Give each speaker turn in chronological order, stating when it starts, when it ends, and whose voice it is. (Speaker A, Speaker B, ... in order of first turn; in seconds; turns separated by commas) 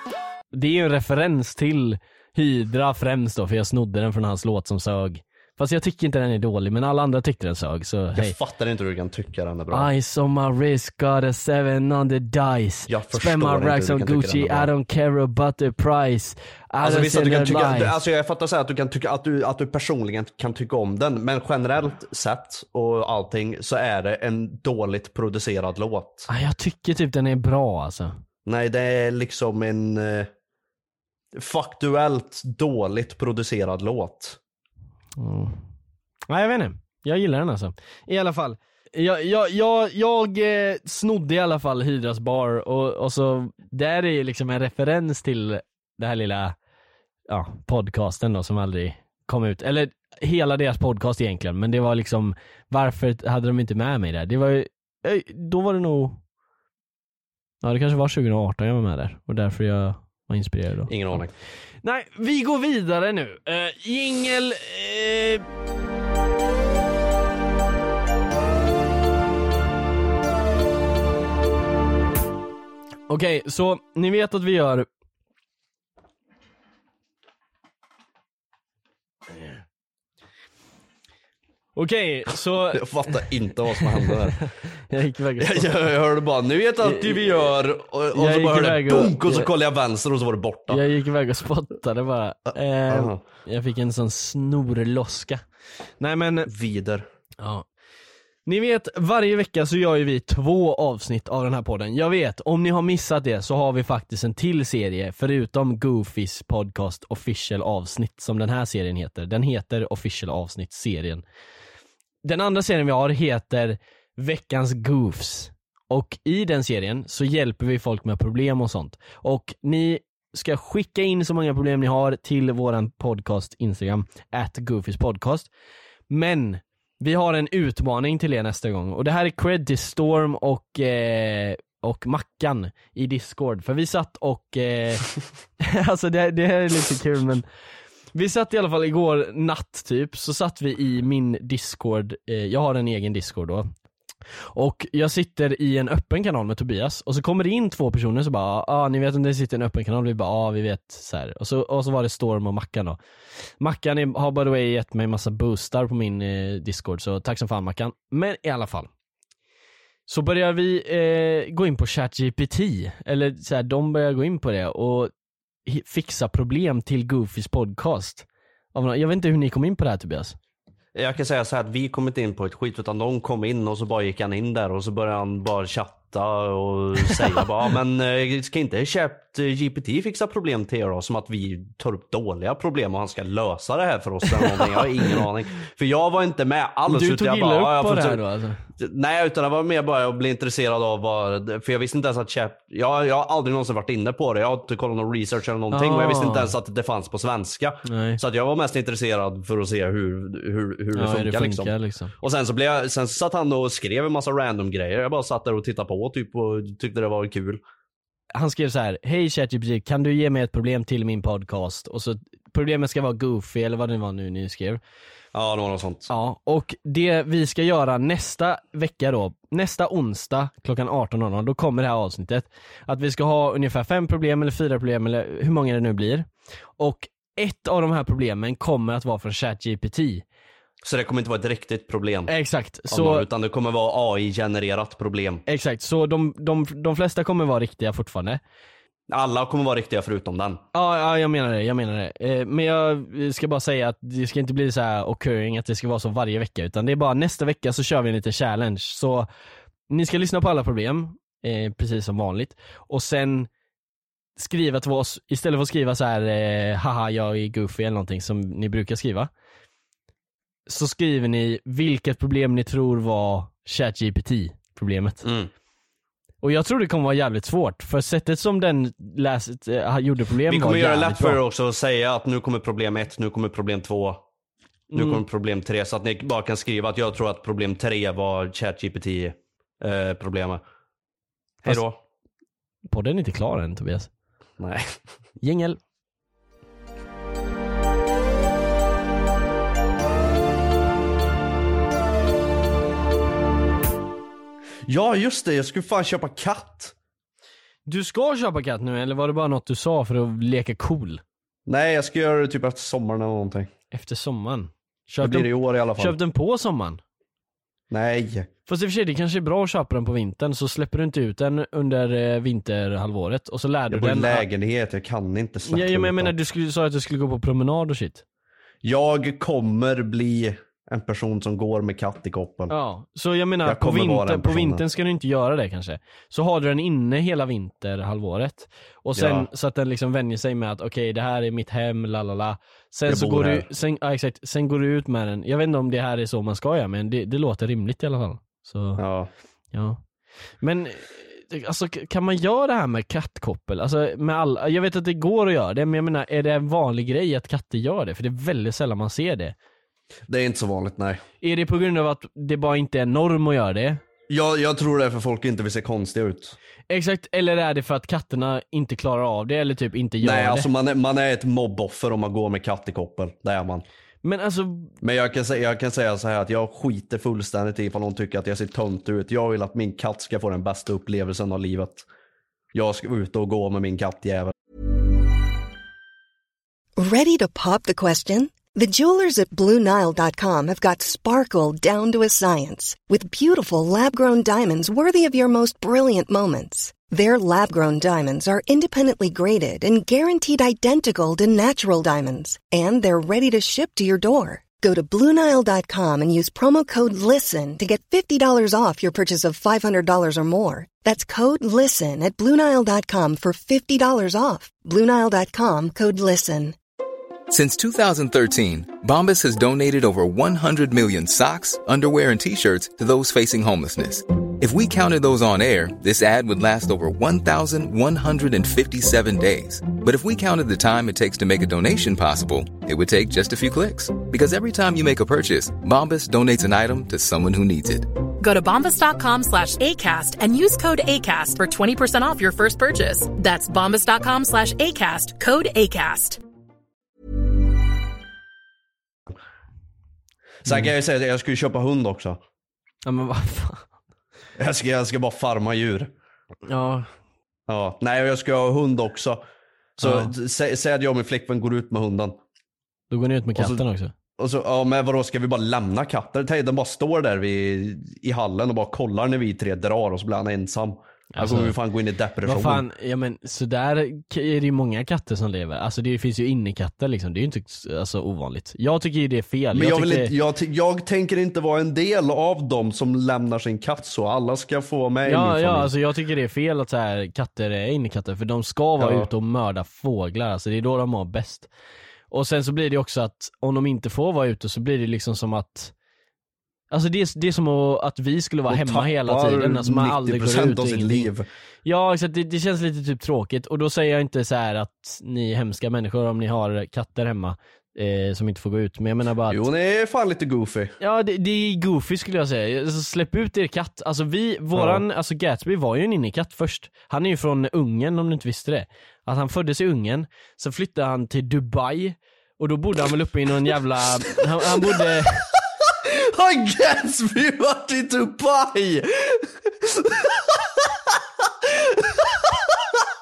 Speaker A: 0.5-8.3, Speaker B: 8.2-9.9, Speaker A: 9.7-17.9, Speaker B: 12.9-14.7, Speaker B: 16.8-26.3, Speaker A: 26.3-28.1, Speaker B: 28.5-30.3, Speaker B: 31.3-34.4, Speaker A: 35.2-35.6, Speaker A: 36.3-46.5, Speaker A: 47.3-56.2, Speaker A: 57.6-61.2, Speaker B: 60.9-61.3, Speaker A: 61.8-65.5, Speaker A: 73.1-74.9, Speaker A: 81.8-85.8, Speaker B: 82.7-84.4, Speaker B: 85.4-90.8, Speaker A: 86.8-87.3, Speaker A: 88.1-89.5, Speaker A: 90.7-95.4, Speaker B: 92.5-93.2, Speaker A: 96.0-96.5, Speaker B: 96.5-97.1, Speaker A: 97.4-97.7, Speaker A: 98.5-111.2, Speaker A: 112.2-125.5, Speaker A: 126.1-137.4, Speaker A: 138.1-143.7, Speaker A: 144.6-153.0, Speaker A: 153.6-158.9, Speaker A: 160.1-165.1, Speaker A: 165.7-170.4, Speaker B: 170.9-188.2, Speaker A: 184.3-185.3, Speaker A: 186.9-188.6, Speaker B: 188.8-207.6, Speaker A: 195.7-196.5, Speaker A: 197.8-198.2, Speaker A: 200.9-202.1, Speaker A: 208.3-214.8, Speaker B: 215.3-216.1, Speaker A: 216.1-230.2, Speaker B: 230.8-232.3, Speaker A: 232.3-233.3, Speaker B: 232.9-235.4, Speaker A: 235.5-238.4, Speaker B: 239.1-240.6, Speaker A: 240.7-249.3, Speaker A: 249.9-253.5, Speaker A: 254.4-259.3, Speaker A: 260.7-265.2, Speaker B: 265.2-265.5, Speaker A: 266.4-271.4, Speaker B: 270.5-274.2, Speaker A: 274.9-275.2, Speaker B: 274.9-280.6, Speaker B: 281.6-282.0, Speaker A: 282.9-284.1, Speaker B: 284.6-284.9, Speaker A: 285.4-285.8, Speaker B: 294.9-296.9, Speaker A: 297.9-301.2, Speaker B: 301.7-303.7, Speaker A: 303.9-307.0, Speaker B: 305.2-306.2, Speaker B: 307.9-308.5, Speaker A: 308.7-314.5, Speaker B: 313.9-316.3, Speaker A: 315.7-318.2, Speaker B: 318.8-322.7, Speaker A: 322.7-339.0, Speaker B: 323.6-324.8, Speaker B: 329.2-329.5, Speaker B: 333.1-333.7, Speaker B: 339.0-339.3, Speaker A: 339.7-340.0, Speaker A: 340.6-349.6, Speaker B: 350.3-351.2, Speaker A: 351.4-354.0, Speaker B: 354.3-356.6, Speaker A: 356.9-360.7, Speaker B: 360.2-363.9, Speaker A: 364.2-364.9, Speaker B: 365.0-372.1, Speaker B: 372.7-374.5, Speaker C: 377.0-406.8, Speaker D: 407.5-428.1, Speaker E: 428.4-436.4, Speaker B: 440.6-442.4, Speaker A: 443.1-443.9, Speaker B: 444.6-446.1, Speaker A: 446.7-447.1, Speaker B: 447.7-449.4, Speaker B: 450.0-452.4, Speaker A: 450.0-450.3, Speaker A: 453.1-454.1, Speaker B: 453.6-453.8, Speaker B: 454.4-462.9, Speaker A: 461.3-461.8, Speaker A: 462.4-470.3, Speaker B: 469.7-475.9, Speaker A: 475.2-481.7, Speaker B: 479.0-479.3, Speaker A: 482.3-485.9, Speaker A: 486.9-491.3, Speaker B: 488.7-491.5, Speaker A: 491.9-499.6, Speaker B: 499.5-501.0, Speaker A: 501.0-515.5, Speaker B: 504.8-505.0, Speaker B: 514.4-515.3, Speaker B: 515.9-523.0